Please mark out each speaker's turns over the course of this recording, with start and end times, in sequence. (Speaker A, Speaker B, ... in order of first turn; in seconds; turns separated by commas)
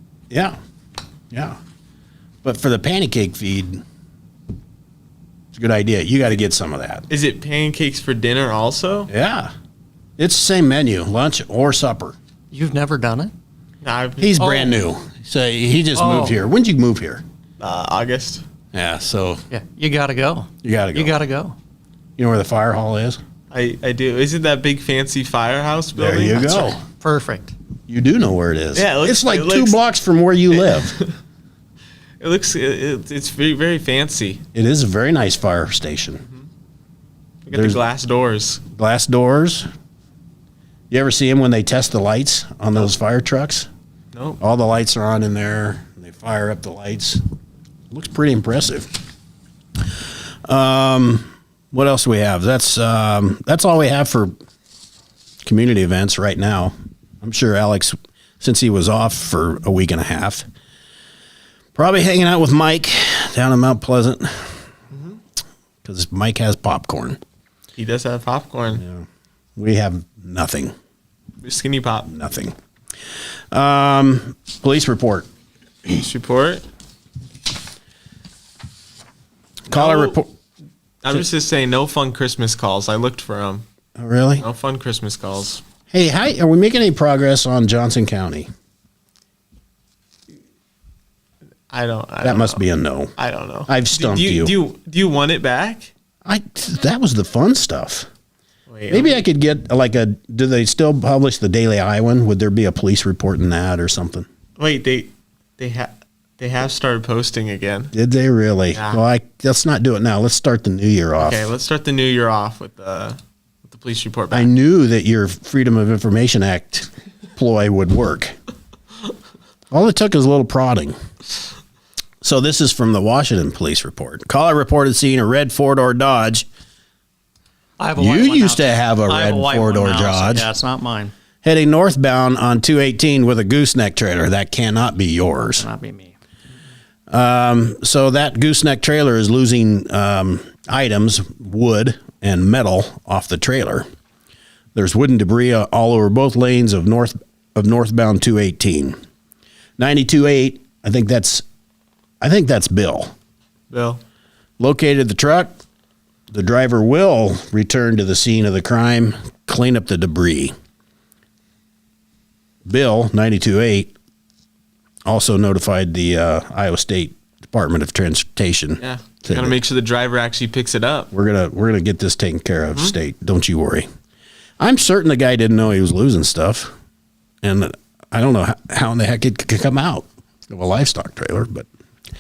Speaker A: 0.3-0.6, Speaker A: 1.3-1.6, Speaker A: 2.4-3.8, Speaker A: 5.5-7.1, Speaker B: 7.1-9.1, Speaker A: 9.1-9.5, Speaker A: 10.2-12.2, Speaker C: 12.5-13.3, Speaker B: 13.8-14.5, Speaker A: 14.2-17.2, Speaker C: 14.4-14.8, Speaker C: 15.9-16.4, Speaker B: 17.6-18.4, Speaker A: 18.7-19.4, Speaker C: 19.5-21.6, Speaker A: 20.6-21.2, Speaker A: 22.2-23.2, Speaker B: 23.5-26.7, Speaker A: 26.0-26.8, Speaker C: 26.2-27.5, Speaker A: 27.9-31.0, Speaker B: 28.8-29.8, Speaker B: 30.5-31.1, Speaker B: 32.2-34.4, Speaker A: 34.5-36.2, Speaker B: 37.5-38.6, Speaker A: 37.5-37.8, Speaker A: 38.8-39.7, Speaker A: 40.9-43.7, Speaker B: 44.1-44.4, Speaker A: 44.4-47.2, Speaker A: 47.9-48.9, Speaker A: 50.5-54.3, Speaker A: 55.4-60.5, Speaker A: 61.8-64.6, Speaker B: 64.9-65.2, Speaker A: 65.8-67.2, Speaker B: 67.8-68.8, Speaker A: 68.8-69.0, Speaker A: 69.6-70.7, Speaker B: 71.4-72.1, Speaker A: 72.1-72.5, Speaker A: 73.5-75.3, Speaker B: 75.9-76.7, Speaker A: 79.7-80.3, Speaker B: 79.7-80.2, Speaker B: 81.0-83.6, Speaker A: 84.0-84.5, Speaker B: 84.4-85.6, Speaker A: 85.9-88.5, Speaker B: 91.7-92.6, Speaker A: 92.2-93.1, Speaker B: 93.2-95.9, Speaker A: 93.7-94.6, Speaker A: 96.2-98.1, Speaker B: 98.7-99.3, Speaker A: 98.9-104.3, Speaker B: 104.6-107.9, Speaker A: 107.9-111.5, Speaker B: 108.7-109.0, Speaker B: 111.2-114.5, Speaker A: 114.3-118.3, Speaker A: 119.7-121.0, Speaker A: 122.2-126.5, Speaker C: 127.8-131.1, Speaker A: 128.0-130.5, Speaker A: 131.4-135.7, Speaker C: 135.6-136.1, Speaker A: 137.1-143.9, Speaker A: 144.8-149.0, Speaker A: 149.8-151.4, Speaker A: 152.2-153.1, Speaker B: 153.7-154.0, Speaker A: 154.6-155.6, Speaker A: 156.3-160.5, Speaker A: 162.7-163.9, Speaker A: 165.1-169.6, Speaker B: 168.8-171.1, Speaker A: 171.1-173.9, Speaker A: 174.6-176.7, Speaker A: 177.4-181.7